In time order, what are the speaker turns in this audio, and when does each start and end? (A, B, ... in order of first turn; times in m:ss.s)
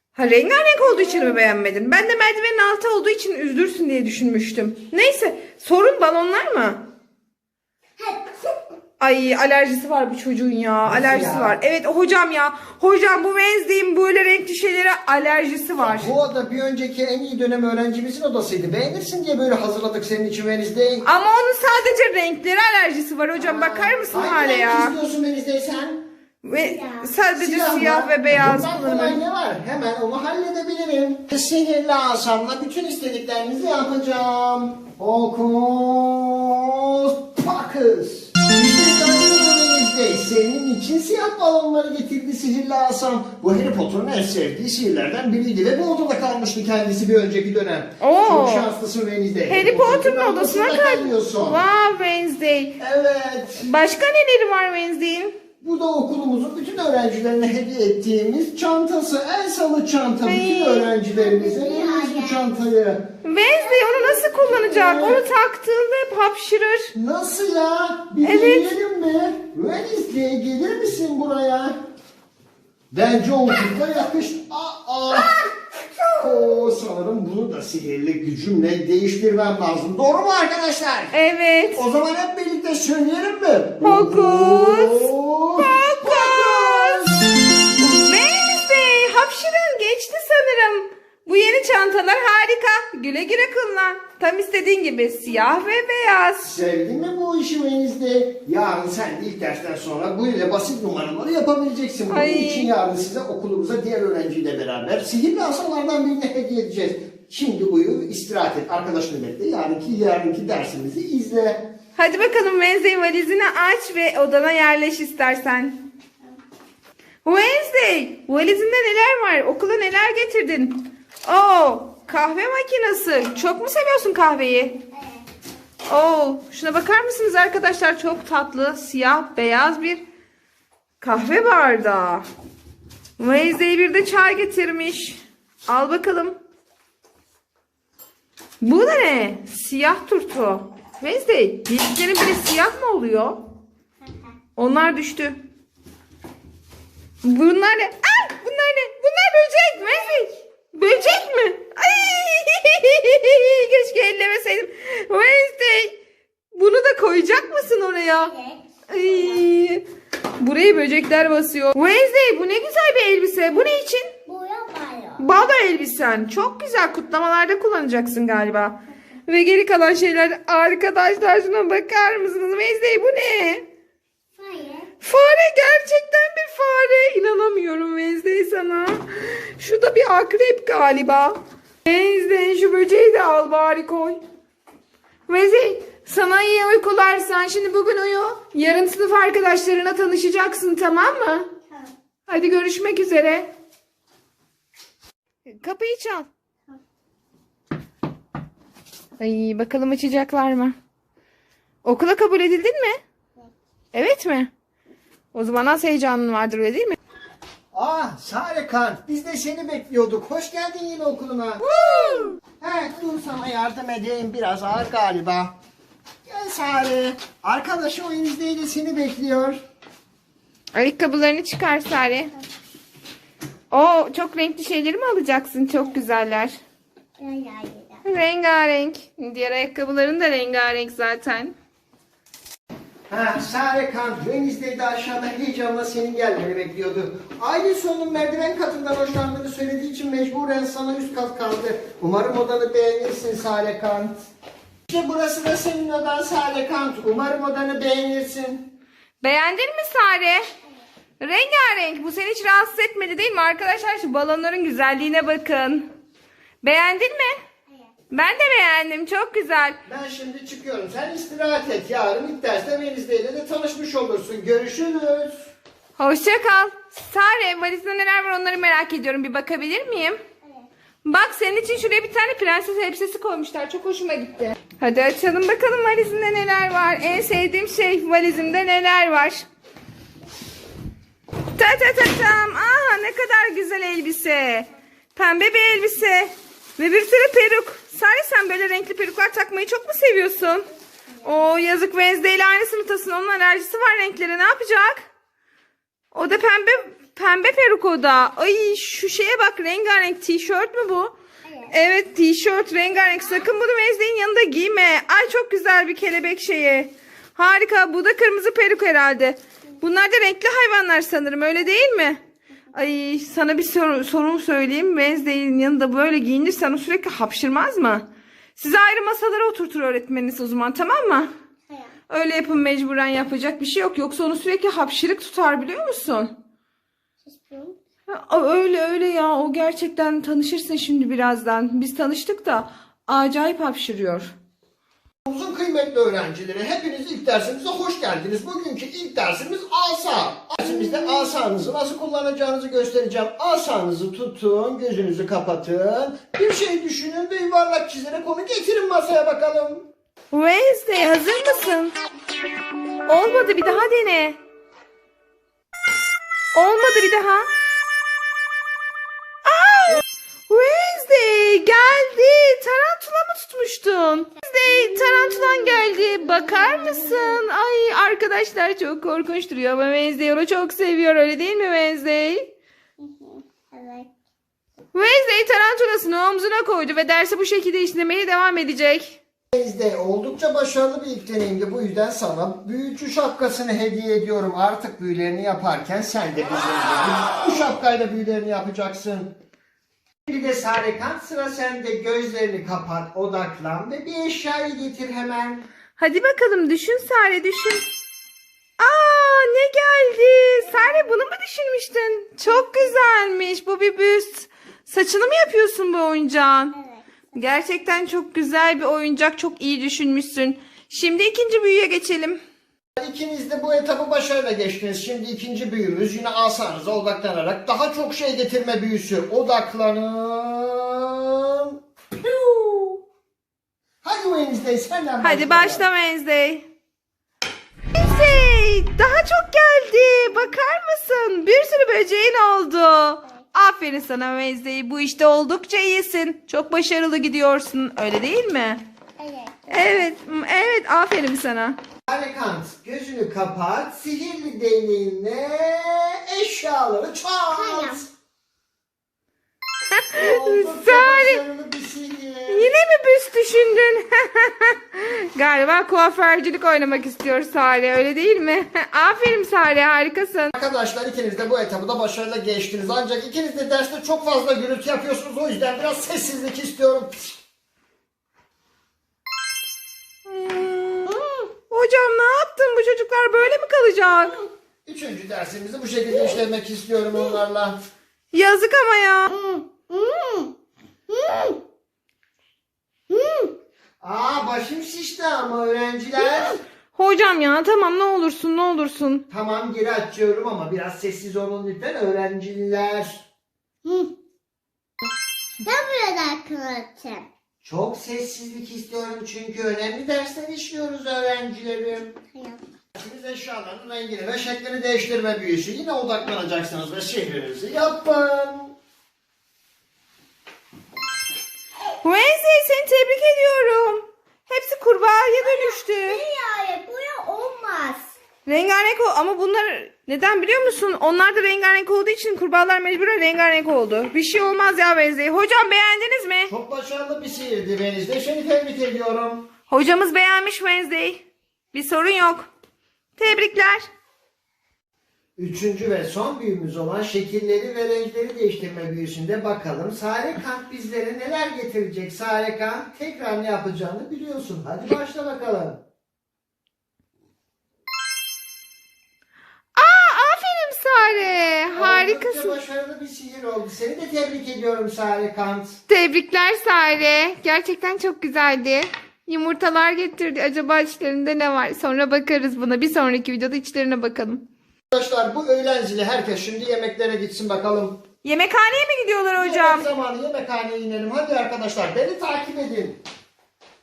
0:00.1-0:06.8 A
0:08.0-0:08.5 B
0:09.0-0:16.1 A
0:10.8-0:11.6 C
0:15.8-0:21.1 C
0:21.0-0:24.9 A
0:23.4-0:26.0 C
0:26.4-0:29.2 A
0:26.5-0:27.1 B
0:27.4-0:51.6 C
0:48.0-0:48.7 A
0:49.5-0:52.8 A
0:52.8-0:53.7 C
0:53.6-0:55.4 A
0:55.6-1:03.1 C
1:00.2-1:00.9 A
1:01.1-1:02.4 B
1:03.2-1:06.9 A
1:04.1-1:05.2 C
1:06.9-1:11.7 C
1:08.2-1:08.7 A
1:12.9-1:15.5 C
1:16.1-1:21.2 C
1:21.1-1:21.8 A
1:21.7-1:27.2 C
1:23.8-1:27.1 A
1:27.8-1:36.5 A
1:36.4-1:51.7 C
1:42.1-1:42.7 A
1:52.0-1:55.9 A
1:57.2-2:04.8 A
2:05.0-2:05.2 B
2:05.8-2:10.0 A
2:11.0-2:12.2 A
2:13.2-2:16.4 A
2:18.6-2:23.4 A
2:24.6-2:25.4 A
2:27.2-2:36.0 A
2:36.5-2:38.3 A
2:38.1-2:39.4 B
2:38.9-2:39.8 A
2:40.4-2:44.1 A
2:44.2-2:45.3 B
2:45.2-2:53.7 A
2:54.4-2:54.9 B
2:55.0-3:04.2 A
3:05.3-3:11.5 A
3:12.3-3:13.5 A
3:15.5-3:16.3 A
3:19.2-3:20.8 A
3:21.8-3:23.0 A
3:23.9-3:24.5 A
3:25.3-3:27.0 A
3:27.7-3:31.7 C
3:31.7-3:32.4 A
3:32.6-3:35.5 C
3:36.2-3:39.6 C
3:40.7-3:42.3 A
3:43.7-3:46.6 A
3:47.2-3:48.0 B
3:48.0-3:51.5 A
3:53.1-4:04.2 C
4:04.9-4:08.7 C
4:09.2-4:10.4 A
4:11.2-4:15.8 A
4:16.6-4:17.4 A
4:18.1-4:19.8 A
4:19.8-4:25.5 C
4:26.0-4:30.2 A
4:31.0-4:39.4 A
4:41.5-4:50.7 A
4:51.2-4:55.0 A
4:56.1-5:01.1 A
5:01.4-5:01.7 B
5:01.7-5:12.2 A
5:12.7-5:21.3 A
5:21.7-5:21.9 B
5:22.1-5:26.3 A
5:27.2-5:27.8 B
5:28.1-5:34.3 A
5:35.2-5:49.9 C
5:50.3-5:52.0 A
5:53.0-5:54.4 A
5:56.5-5:57.5 A
5:59.4-6:12.5 A
6:05.0-6:07.4 B
6:13.0-6:14.1 B
6:14.9-6:19.2 A
6:19.5-6:29.3 C
6:30.2-6:35.6 C
6:36.0-6:37.8 A
6:38.8-6:46.8 A
6:47.3-6:52.4 A
6:53.0-7:01.7 C
7:02.2-7:03.0 C
7:04.0-7:05.8 C
7:05.2-7:06.6 A
7:07.9-7:18.9 A
7:19.2-7:20.0 B
7:19.7-7:21.8 A
7:22.1-7:28.1 C
7:27.5-7:28.0 B
7:29.9-7:31.4 A
7:30.1-7:32.7 C
7:32.5-7:40.5 A
7:40.5-7:47.3 C
7:50.2-7:54.4 A
7:51.0-7:51.5 B
7:54.8-7:57.8 C
7:58.3-7:59.4 A
7:59.3-8:00.5 B
8:01.1-8:01.6 B
8:03.1-8:03.5 B
8:04.0-8:06.6 C
8:06.9-8:09.2 A
8:09.3-8:13.2 C
8:13.8-8:14.1 B
8:15.6-8:17.3 B
8:17.6-8:22.2 C
8:22.3-8:22.6 B
8:22.9-8:28.7 C
8:32.0-8:36.2 A
8:35.4-8:38.2 B
8:38.4-8:46.5 A
8:46.5-8:49.5 C
8:49.7-8:52.5 A
8:53.2-8:53.9 A
8:55.4-9:05.8 C
9:09.8-9:12.6 A
9:11.7-9:15.8 C
9:15.9-9:24.4 A
9:24.9-9:28.0 C
9:28.2-9:29.9 A
9:29.3-9:33.0 C